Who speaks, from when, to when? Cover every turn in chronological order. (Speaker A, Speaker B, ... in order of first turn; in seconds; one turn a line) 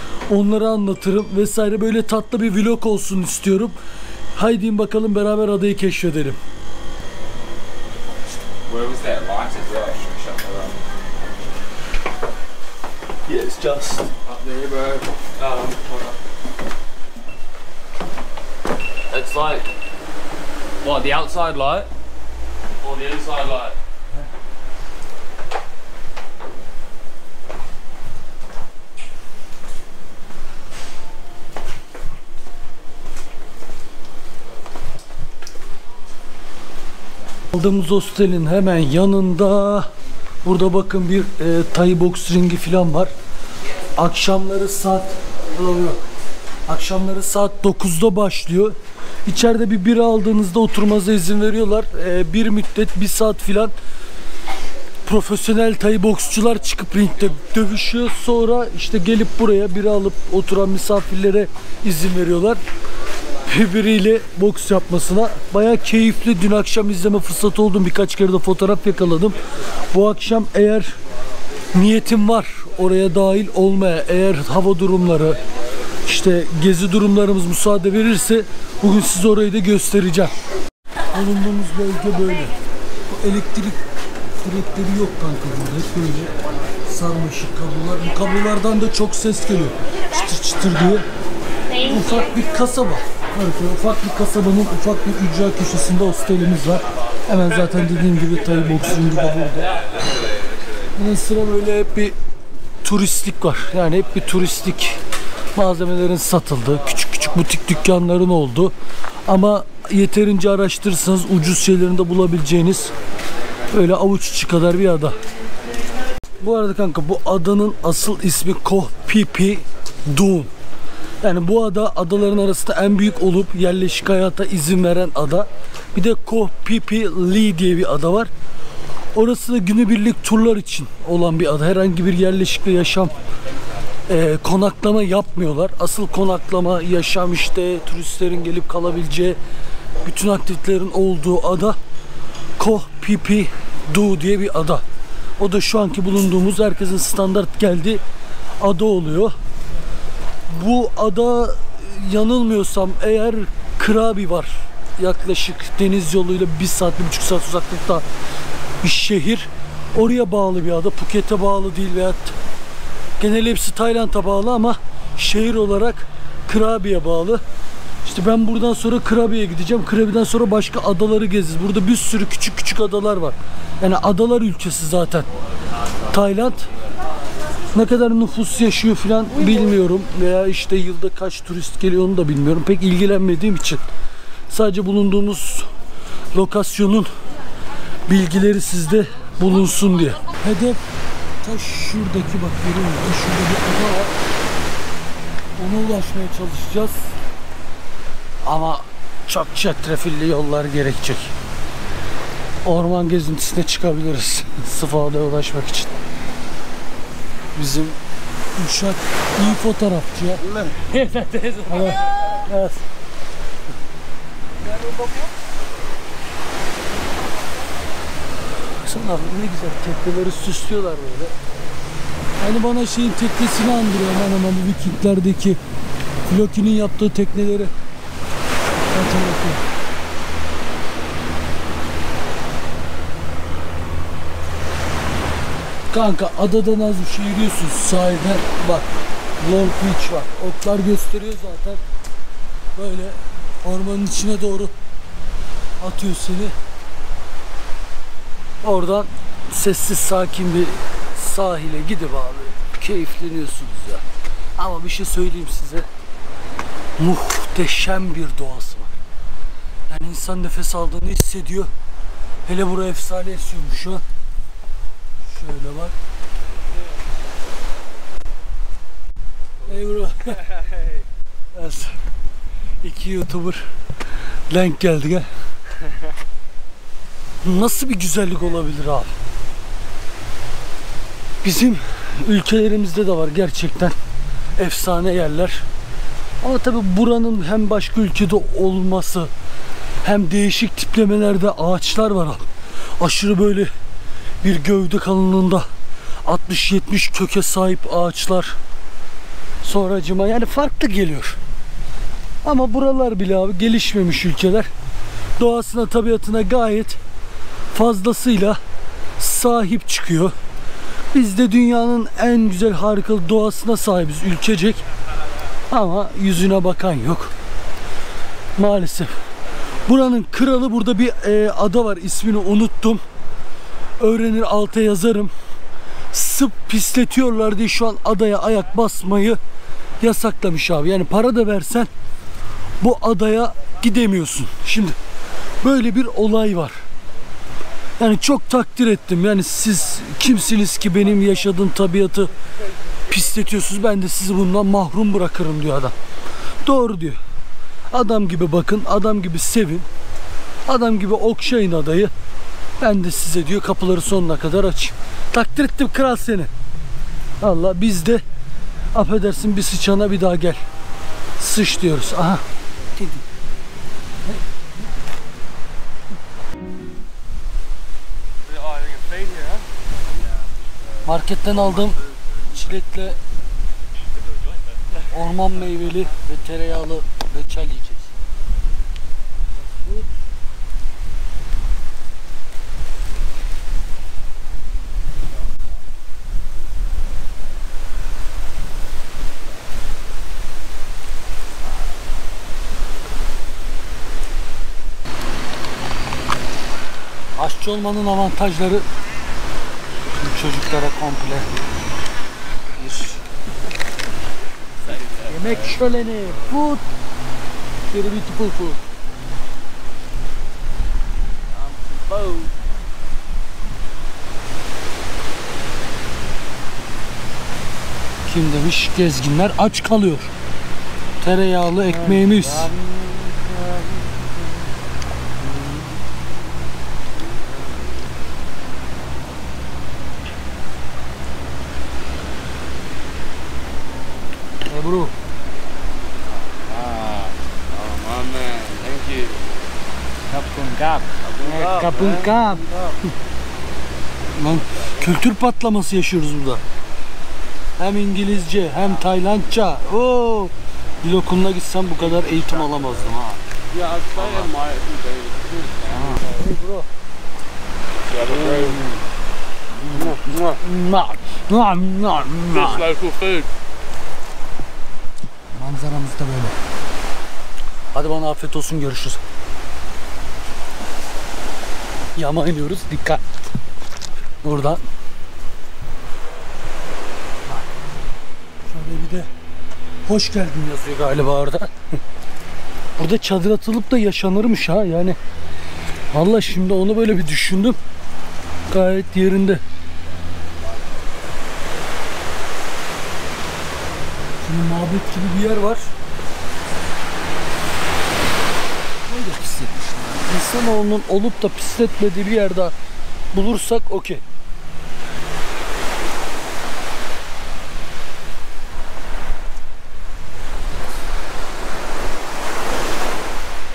Speaker A: 0.3-3.8
Speaker A: 4.3-6.4
Speaker B: 8.7-10.8
Speaker A: 13.2-14.1
Speaker B: 14.2-16.0
Speaker B: 19.1-19.7
Speaker B: 20.8-21.9
Speaker B: 22.8-23.7
Speaker A: 37.5-39.9
Speaker A: 40.4-43.1
Speaker A: 44.0-46.0
Speaker A: 46.7-53.7
Speaker A: 55.0-62.6
Speaker A: 63.4-71.0
Speaker A: 71.7-75.4
Speaker A: 76.0-80.3
Speaker A: 81.1-82.5
Speaker A: 83.1-83.8
Speaker A: 84.4-86.3
Speaker A: 86.8-91.0
Speaker A: 91.8-99.7
Speaker A: 101.0-102.1
Speaker A: 102.8-105.0
Speaker A: 105.5-108.7
Speaker A: 109.2-112.9
Speaker A: 113.7-115.2
Speaker A: 116.4-120.5
Speaker A: 121.2-128.3
Speaker A: 129.1-133.1
Speaker A: 134.1-139.4
Speaker A: 140.0-141.8
Speaker A: 142.6-144.8
Speaker A: 145.4-148.0
Speaker A: 148.6-149.3
Speaker A: 150.5-158.1
Speaker A: 158.8-162.4
Speaker A: 163.2-167.4
Speaker A: 168.0-175.3
Speaker A: 176.1-176.7
Speaker A: 177.7-183.8
Speaker A: 184.5-185.7
Speaker A: 186.3-187.1
Speaker A: 188.1-190.8
Speaker A: 191.4-194.1
Speaker A: 195.6-197.1
Speaker A: 198.4-201.3
Speaker A: 202.6-205.9
Speaker A: 207.5-208.0
Speaker A: 208.6-210.8
Speaker B: 210.7-211.9
Speaker A: 211.6-212.8
Speaker A: 218.7-221.3
Speaker A: 222.4-225.6
Speaker A: 226.3-227.7
Speaker A: 228.9-229.6
Speaker A: 235.9-238.9
Speaker A: 239.4-241.8
Speaker A: 242.8-244.7
Speaker A: 245.8-246.5
Speaker A: 248.6-254.0
Speaker A: 254.6-255.9
Speaker A: 257.0-259.0
Speaker A: 259.9-261.7
Speaker A: 262.4-264.0
Speaker A: 265.2-265.9
Speaker A: 269.6-270.5
Speaker A: 271.5-272.0
Speaker A: 272.8-273.7
Speaker A: 274.5-275.3
Speaker A: 277.4-279.1
Speaker A: 281.4-283.9
Speaker A: 284.6-285.6
Speaker A: 286.4-289.3
Speaker A: 290.0-293.7
Speaker A: 294.4-295.7
Speaker A: 296.2-298.6
Speaker A: 299.6-301.4
Speaker A: 302.4-304.7
Speaker A: 305.4-307.0
Speaker A: 307.7-308.6
Speaker A: 309.2-310.3
Speaker A: 311.1-314.9
Speaker A: 315.7-317.3
Speaker A: 318.6-319.1
Speaker A: 319.8-323.0
Speaker A: 324.0-325.3
Speaker A: 326.1-329.4
Speaker A: 330.0-331.9
Speaker A: 332.8-335.0
Speaker A: 335.6-336.8
Speaker A: 338.0-342.3
Speaker A: 343.1-345.9
Speaker A: 346.6-347.2
Speaker A: 347.9-349.9
Speaker A: 350.6-352.1
Speaker A: 352.8-356.5
Speaker A: 357.4-358.2
Speaker A: 358.9-360.6
Speaker A: 361.4-362.4
Speaker A: 362.9-363.2
Speaker B: 368.5-369.6
Speaker A: 371.0-373.2
Speaker A: 375.1-378.1
Speaker A: 397.4-398.8
Speaker A: 400.1-401.5
Speaker A: 402.8-403.1
Speaker A: 405.2-406.8
Speaker A: 407.9-408.8
Speaker B: 412.1-412.5
Speaker A: 418.2-420.3
Speaker A: 421.2-422.7
Speaker B: 422.2-424.6
Speaker A: 434.7-435.1
Speaker B: 436.5-439.4
Speaker B: 440.3-442.9
Speaker A: 441.5-442.7
Speaker A: 444.4-446.6
Speaker A: 447.8-453.4
Speaker B: 453.7-456.2
Speaker A: 455.9-456.9
Speaker B: 458.1-459.0
Speaker A: 459.8-462.9
Speaker B: 460.1-460.6
Speaker B: 462.9-463.5
Speaker A: 465.5-466.6
Speaker A: 467.9-469.2
Speaker A: 472.1-473.2
Speaker A: 474.4-474.8
Speaker A: 478.7-479.3
Speaker A: 480.1-481.7
Speaker A: 483.0-485.2
Speaker A: 486.1-487.8
Speaker A: 488.7-489.6
Speaker A: 494.4-495.9
Speaker A: 499.1-502.7
Speaker A: 503.3-504.2